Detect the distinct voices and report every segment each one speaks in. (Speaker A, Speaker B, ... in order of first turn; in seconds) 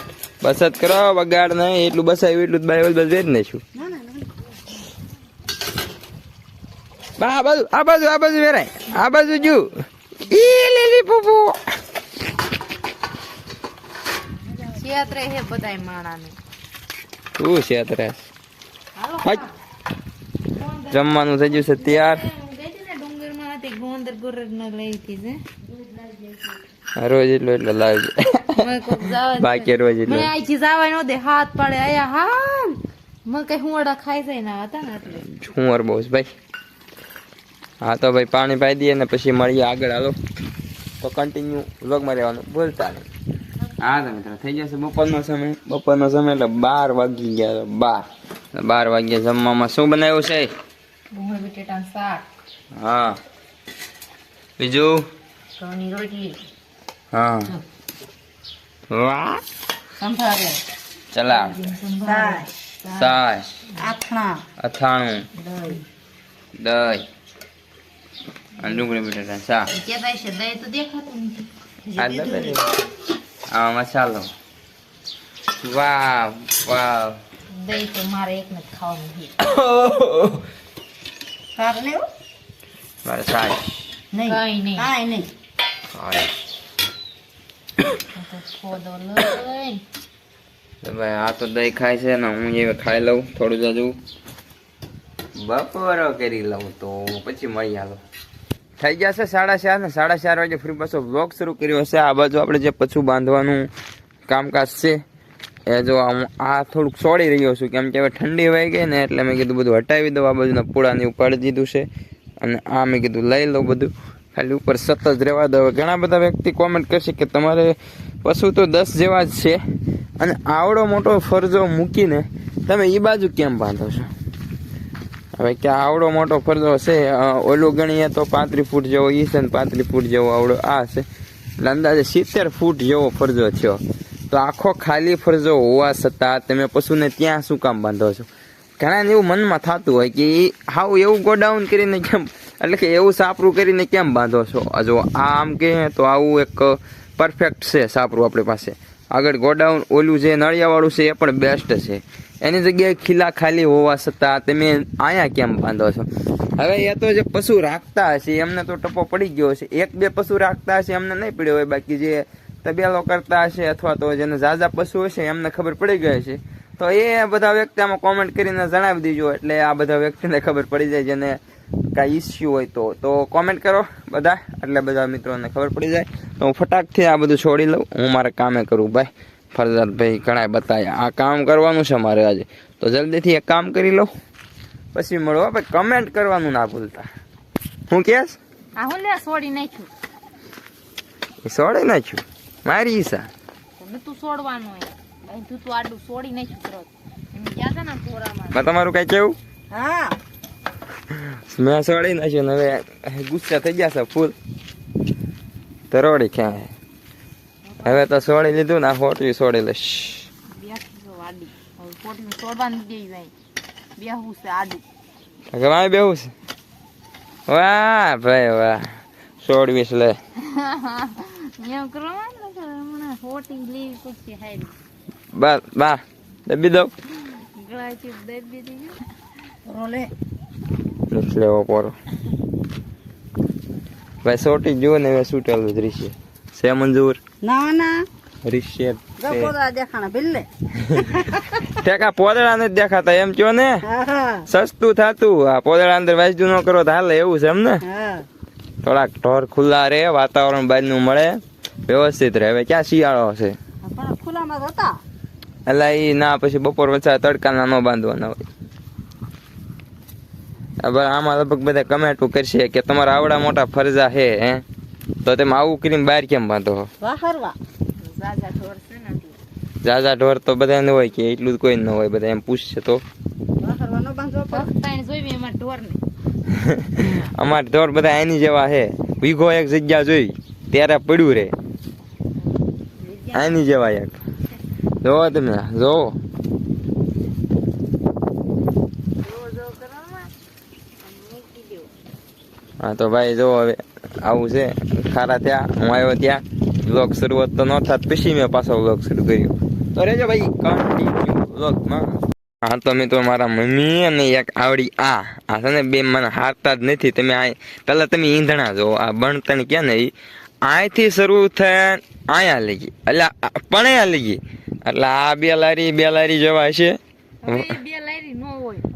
Speaker A: 0.4-3.6, 7.2-11.6, 17.4-18.3, 20.9-22.2, 27.0-30.3, 35.1-36.3, 37.8-40.2, 41.0-43.0, 43.8-50.5, 52.7-53.2, 54.6-55.0, 57.1-57.5, 58.9-59.4, 61.1-61.7, 62.9-63.6, 64.6-65.3, 66.5-67.0, 68.6-69.7, 72.0-72.7, 73.5-74.3, 75.6-77.2, 79.4-80.4, 83.0-83.6, 85.9-86.3, 90.8-94.0, 95.4-98.0, 98.8-103.7, 104.3-105.0, 105.7-111.9, 112.4-119.6, 120.2-124.1, 125.3-131.1, 131.6-138.3, 138.8-171.4, 171.9-184.1, 184.9-187.1, 187.9-188.4, 191.4-193.3, 198.5-199.3, 201.1-204.3, 205.9-206.7, 207.8-210.3, 215.5-216.3, 217.5-220.2, 225.3-226.9, 231.1-231.9, 234.2-237.2, 238.4-239.5, 240.8-243.8, 244.5-247.8, 248.8-253.6, 255.7-258.4, 260.8-264.6, 265.2-266.9, 269.8-273.0, 276.5-281.5, 283.3-284.2, 285.0-286.2, 292.8-310.1, 310.6-317.8
Speaker B: 3.7-4.3, 62.0-62.5, 63.8-64.4, 71.9-72.6, 81.5-82.0, 84.1-85.3, 199.7-200.2, 229.7-230.1, 237.4-238.0, 239.2-241.6, 243.8-244.5, 247.8-248.3, 253.8-255.0, 267.0-267.6, 273.6-274.7
Speaker C: 14.7-16.4, 18.9-19.5, 20.5-26.6, 28.6-35.3, 51.1-52.2, 55.6-56.4, 60.0-60.6, 61.3-63.2, 69.7-71.5, 77.5-79.3, 84.2-84.9, 88.0-89.8, 188.8-189.9, 193.8-198.6, 207.7-208.1, 210.5-213.3, 213.9-214.8, 220.4-224.7, 227.1-229.0, 268.0-269.4, 274.5-276.0, 283.0-283.6, 289.2-290.3, 291.0-291.9, 317.4-318.9